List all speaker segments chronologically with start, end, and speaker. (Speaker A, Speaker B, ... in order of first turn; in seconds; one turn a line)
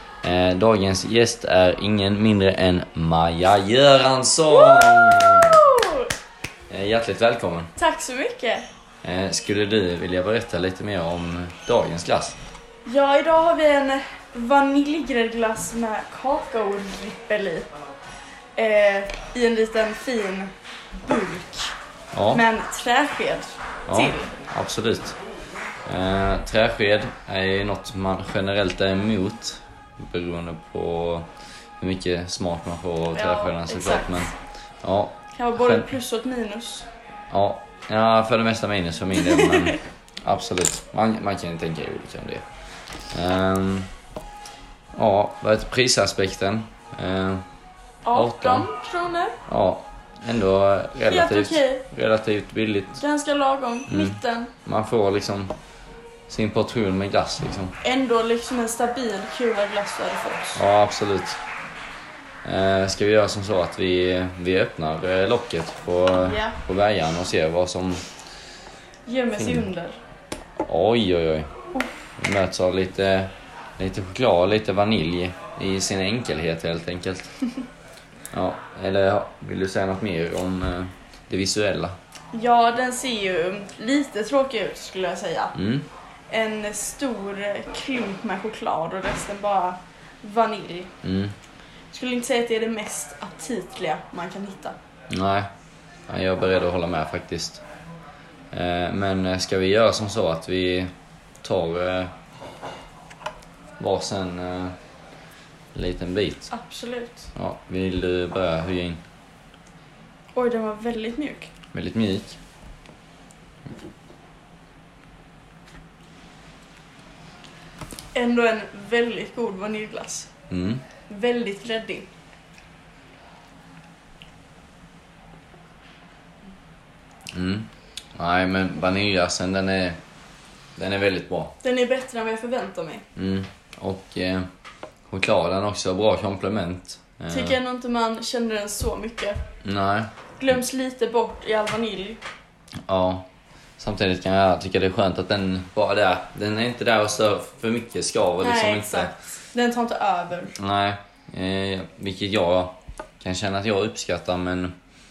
Speaker A: 0.2-5.6
Speaker B: 4.5-6.1
Speaker A: 6.7-7.7
Speaker B: 7.8-8.7
Speaker A: 9.0-12.4
Speaker B: 12.8-17.7
Speaker B: 18.5-20.5
Speaker B: 21.0-21.7
Speaker A: 22.1-22.4
Speaker B: 22.3-24.3
Speaker A: 23.9-25.2
Speaker A: 25.9-35.9
Speaker B: 33.1-34.3
Speaker B: 35.3-36.9
Speaker A: 37.3-42.4
Speaker B: 39.2-39.8
Speaker A: 43.1-43.9
Speaker A: 44.9-47.4
Speaker B: 48.0-49.4
Speaker A: 48.1-48.7
Speaker A: 49.5-53.0
Speaker B: 51.1-51.8
Speaker B: 53.0-54.5
Speaker A: 53.9-55.5
Speaker A: 56.3-57.8
Speaker B: 57.8-60.6
Speaker A: 60.5-61.4
Speaker A: 62.4-68.0
Speaker B: 66.1-66.6
Speaker B: 69.0-70.0
Speaker A: 69.3-69.7
Speaker A: 70.7-71.5
Speaker B: 71.7-72.1
Speaker A: 72.2-77.3
Speaker A: 78.3-81.9
Speaker B: 82.3-85.5
Speaker A: 85.5-85.9
Speaker B: 86.3-90.9
Speaker A: 91.0-91.3
Speaker B: 91.9-94.7
Speaker A: 95.1-95.5
Speaker A: 96.1-97.6
Speaker A: 98.5-100.9
Speaker A: 101.4-102.1
Speaker A: 103.8-104.7
Speaker A: 105.7-106.5
Speaker B: 106.5-107.3
Speaker A: 107.3-109.0
Speaker B: 110.3-111.5
Speaker A: 111.7-112.4
Speaker B: 118.1-120.3
Speaker A: 120.5-120.8
Speaker B: 121.1-122.1
Speaker A: 127.3-130.0
Speaker A: 130.8-131.5
Speaker B: 131.6-133.0
Speaker A: 133.2-134.5
Speaker A: 135.1-137.6
Speaker B: 137.3-139.4
Speaker A: 139.6-140.1
Speaker B: 140.4-142.2
Speaker A: 142.9-143.3
Speaker A: 143.8-149.1
Speaker B: 148.4-150.5
Speaker A: 150.6-154.7